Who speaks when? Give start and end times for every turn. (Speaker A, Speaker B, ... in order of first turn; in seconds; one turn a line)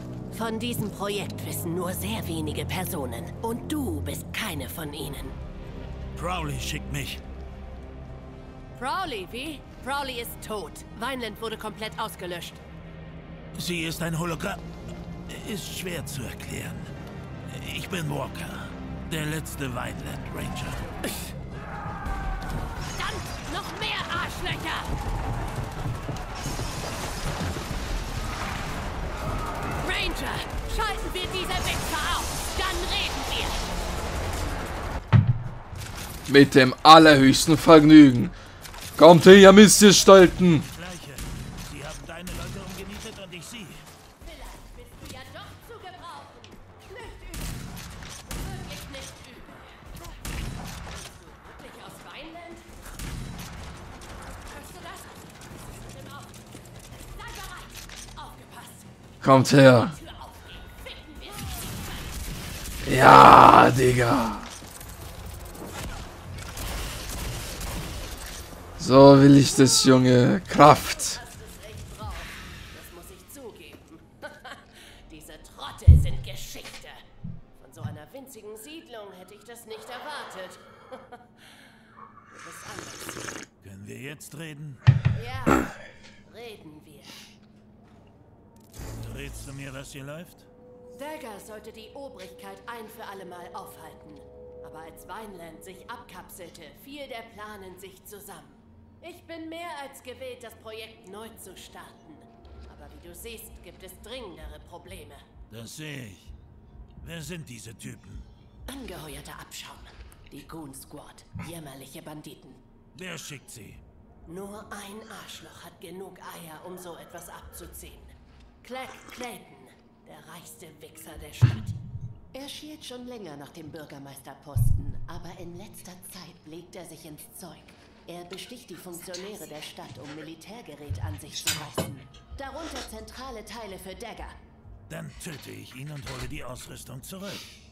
Speaker A: 0.3-5.4
Speaker B: 6.2-7.2
Speaker A: 8.8-12.6
Speaker B: 13.6-14.7
Speaker B: 15.3-16.9
Speaker B: 17.5-20.9
Speaker A: 22.9-24.9
Speaker A: 29.8-33.7
Speaker C: 36.3-38.3
Speaker C: 39.0-40.7
Speaker B: 40.6-43.8
Speaker A: 44.2-47.6
Speaker A: 48.2-49.8
Speaker A: 50.9-52.7
Speaker A: 54.4-56.5
Speaker A: 57.0-58.9
Speaker C: 59.2-60.0
Speaker A: 59.7-62.1
Speaker C: 62.9-64.5
Speaker C: 68.8-71.2
Speaker A: 69.5-70.0
Speaker A: 70.7-77.0
Speaker A: 77.6-81.7
Speaker A: 82.3-83.4
Speaker B: 83.6-84.8
Speaker A: 85.1-85.7
Speaker A: 86.3-87.2
Speaker B: 89.0-90.5
Speaker A: 90.9-105.2
Speaker B: 105.5-106.3
Speaker B: 107.0-108.3
Speaker A: 108.7-112.6
Speaker B: 113.0-113.8
Speaker A: 114.3-121.8
Speaker A: 122.3-134.4
Speaker B: 134.9-137.5